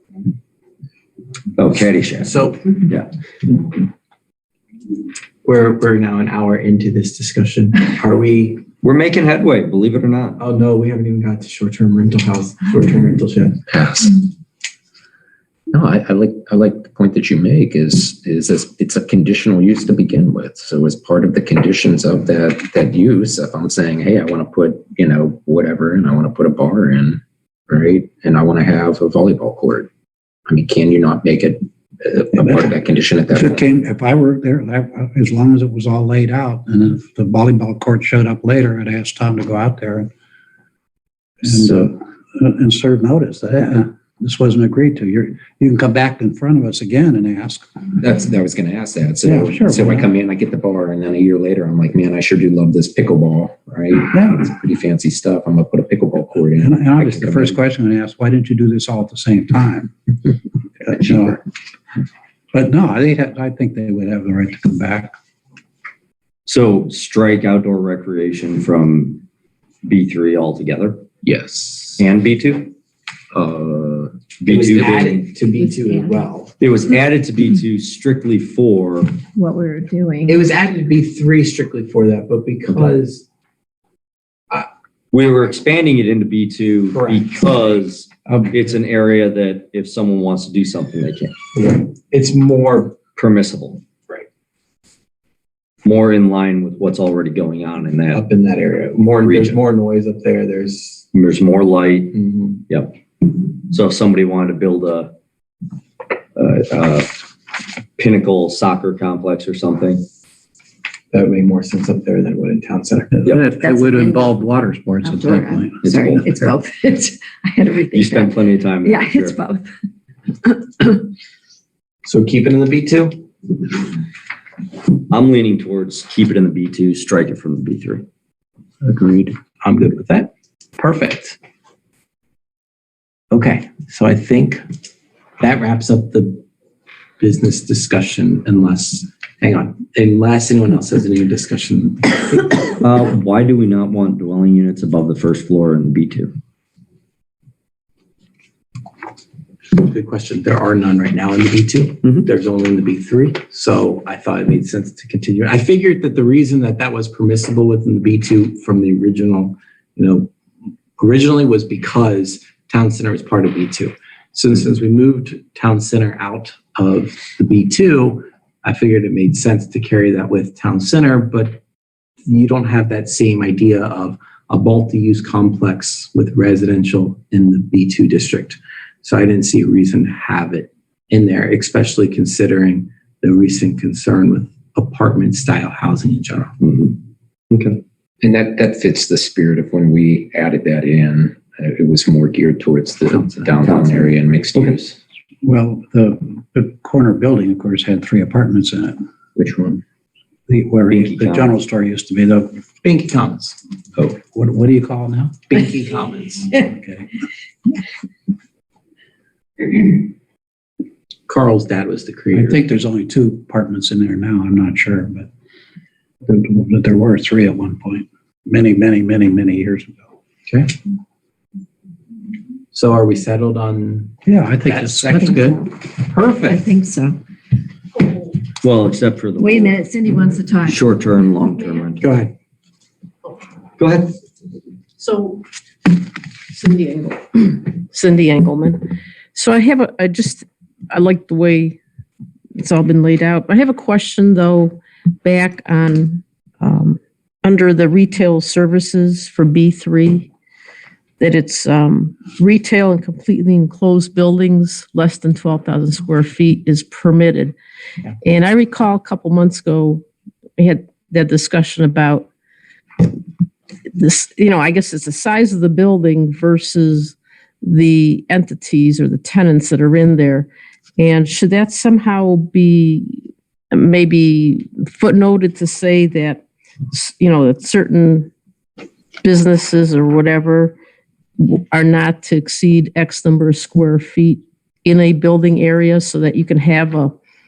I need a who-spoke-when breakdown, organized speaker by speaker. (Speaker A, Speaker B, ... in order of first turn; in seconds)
Speaker A: 1.6-3.1, 8.8-10.4, 66.5-69.2, 69.8-71.0, 72.0-72.7, 74.4-75.3, 76.6-79.2, 85.1-91.3, 93.1-93.8, 95.8-98.2, 99.2-99.6, 101.1-102.2, 102.7-103.0, 103.7-105.1, 106.3-107.2, 108.0-110.0, 115.8-116.3, 117.9-119.4, 125.1-128.1, 142.8-146.3, 152.0-152.3, 186.6-187.0, 187.5-187.8, 193.6-194.9, 200.9-201.5, 228.6-229.8, 230.6-232.1, 233.8-234.2
Speaker B: 2.2-2.6, 5.4-8.7, 10.4-13.6, 74.5-76.5, 80.3-83.3, 86.9-87.2, 91.6-93.0, 98.1-101.1, 102.1-102.6, 111.1-113.2, 122.0-123.2, 129.6-131.4, 133.3-134.7, 135.4-136.4, 137.2-142.6, 149.8-160.3, 161.0-171.6, 172.2-186.5, 193.1-193.5, 202.8-203.6, 205.5-206.6, 211.3-212.6, 220.5-220.7, 222.7-226.7, 232.0-232.3
Speaker C: 13.7-14.2, 15.7-29.9, 30.5-33.6, 48.0-57.6, 71.2-72.0, 73.3-74.2, 188.2-194.9, 199.3-199.8
Speaker D: 32.4-32.7, 33.3-40.1, 41.4-47.8, 49.2-50.1, 54.1-54.4, 56.5-59.9, 60.8-61.4, 62.5-65.1, 88.3-88.5, 113.1-116.5, 195.4-199.0, 200.5-202.6, 204.3-205.4, 206.6-207.1, 212.3-215.3, 216.2-220.0, 224.2-225.6
Speaker E: 75.6-76.3, 79.3-80.4, 113.6-114.4, 115.0-119.7, 120.5-120.9, 226.4-227.2, 229.4-230.8
Speaker F: 235.0-235.4, 236.5-241.8, 242.6-250.3, 251.2-257.5, 258.2-260.0, 260.6-262.3, 263.9-278.3, 279.2-280.8, 281.4-287.1